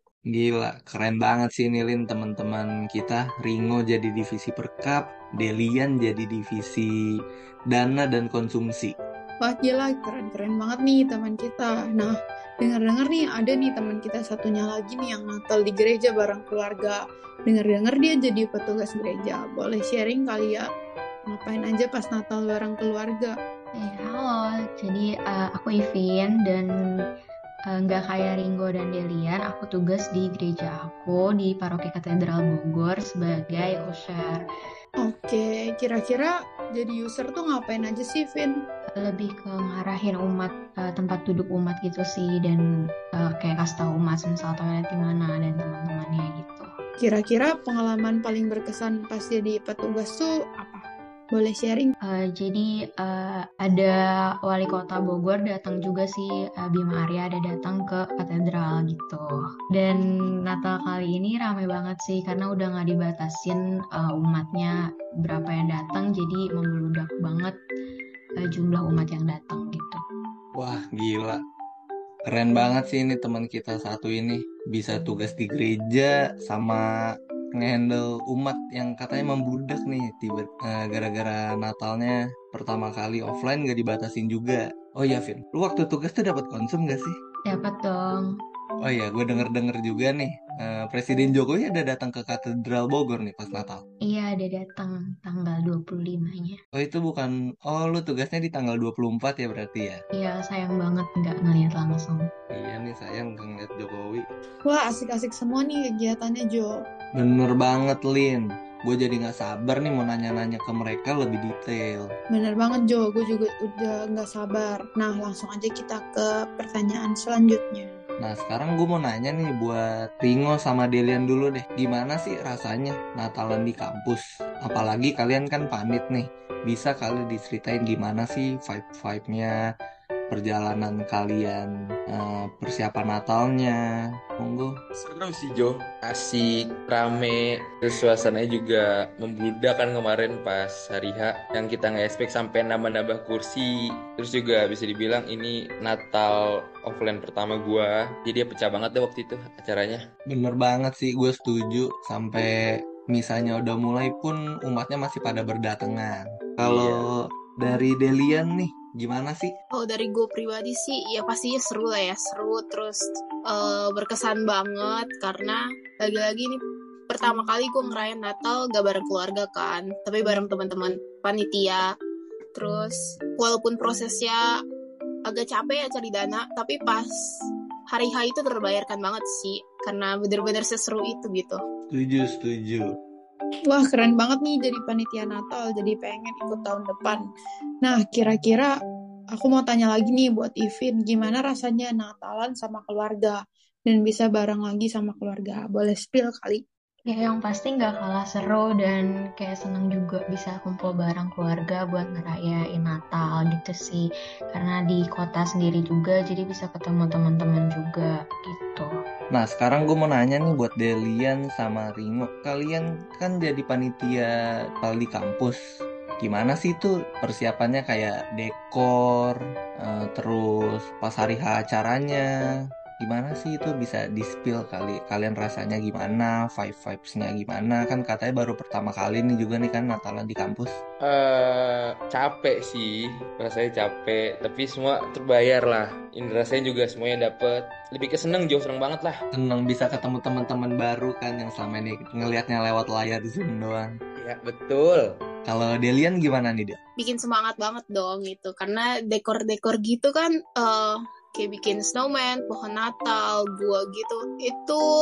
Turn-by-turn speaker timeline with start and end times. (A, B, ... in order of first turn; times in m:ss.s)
0:00.3-0:06.9 A
0:07.7-0:09.0 A
0:09.4-0:20.7 B
0:21.3-0:23.4 B
0:23.8-0:26.7 C
0:27.7-0:34.4 C
0:35.0-0:38.6 B
0:39.0-0:42.6 C
0:43.2-0:46.7 C
0:47.0-0:51.9 B
0:52.1-1:07.6 C
1:08.4-1:10.0 C
1:10.6-1:11.4 A
1:12.3-1:16.8 A
1:17.6-1:27.2 A
1:27.5-1:28.3 C
1:28.8-1:33.8 A
1:34.1-1:36.6 C
1:36.8-1:40.0 A
1:40.2-1:42.2 C
1:42.5-1:44.3 A
1:44.7-1:46.8 B
1:47.2-1:52.1 A
1:52.3-1:58.0 B
1:58.2-2:09.6 A
2:10.3-2:13.8 A
2:14.4-2:14.7 A
2:15.0-2:30.0 D
2:30.3-2:32.5 A
2:33.1-2:39.5 A
2:36.6-2:37.0 D
2:39.7-2:51.8 E
2:52.6-2:54.4 E
2:55.3-2:57.1 E
2:57.9-3:01.6 E
3:01.9-3:02.9 A
3:03.7-3:07.2 B
3:07.8-3:08.7 B
3:09.4-3:16.6 B
3:17.1-3:28.9 C
3:29.3-3:34.3 A
3:34.8-3:35.6 A
3:36.2-3:42.3 A
3:43.0-3:50.7 A
3:51.0-3:59.2 D
3:59.3-4:03.9 A
4:04.2-4:05.1 D
4:05.5-4:06.8 A
4:07.0-4:14.8 E